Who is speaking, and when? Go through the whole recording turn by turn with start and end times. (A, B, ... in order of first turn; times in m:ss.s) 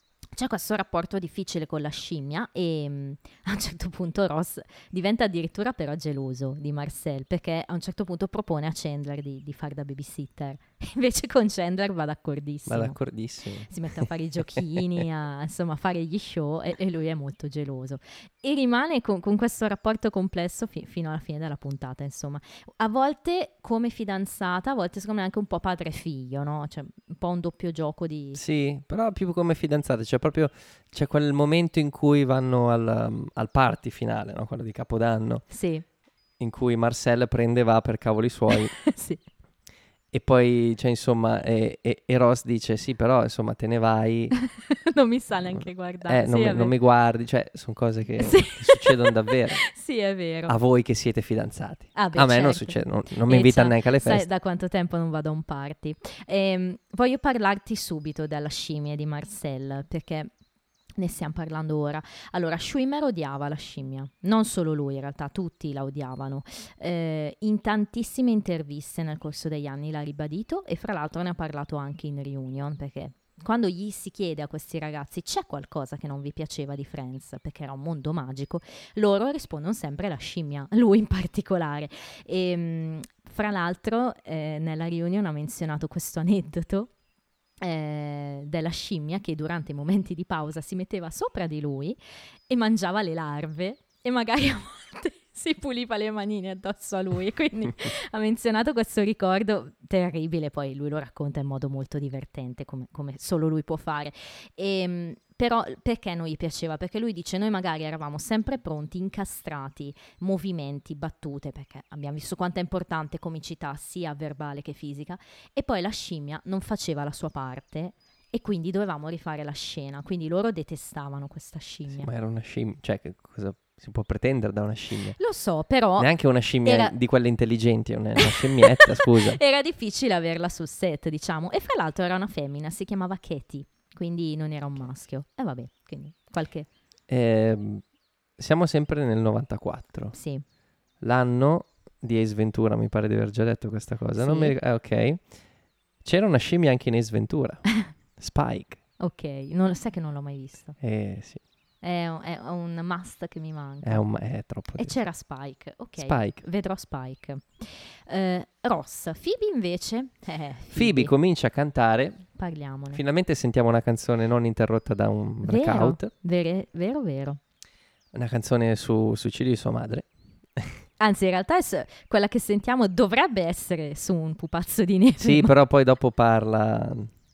0:00.3-0:13.0 A
0:12.7-0:14.1 B
0:13.6-0:28.4 A
0:28.3-0:35.4 B
0:35.5-0:35.8 A
0:36.4-0:38.8 B
0:38.7-0:39.2 A
0:40.1-0:44.4 B
0:44.4-0:46.7 A
0:46.0-0:49.6 B
0:48.2-0:50.6 A
0:50.5-0:54.2 B
0:52.0-1:00.3 A
1:01.0-1:26.9 A
1:27.6-1:32.0 A
1:32.5-2:02.1 A
2:01.9-2:05.2 B
2:05.2-2:06.1 A
2:06.0-2:09.4 B
2:06.6-2:07.0 A
2:08.2-2:16.7 A
2:17.1-2:17.8 B
2:18.4-2:20.2 B
2:20.1-2:20.4 A
2:21.0-2:25.2 B
2:24.2-2:24.6 A
2:26.0-2:27.7 B
2:28.2-2:28.8 B
2:29.0-2:30.8 A
2:30.8-2:31.4 B
2:31.8-2:34.0 A
2:33.8-2:35.0 B
2:34.8-2:41.1 A
2:36.0-2:36.4 B
2:40.7-2:42.2 B
2:42.4-2:43.0 A
2:42.9-2:46.1 B
2:45.4-2:47.4 A
2:48.1-2:50.7 B
2:51.0-2:55.5 A
2:55.2-2:57.1 B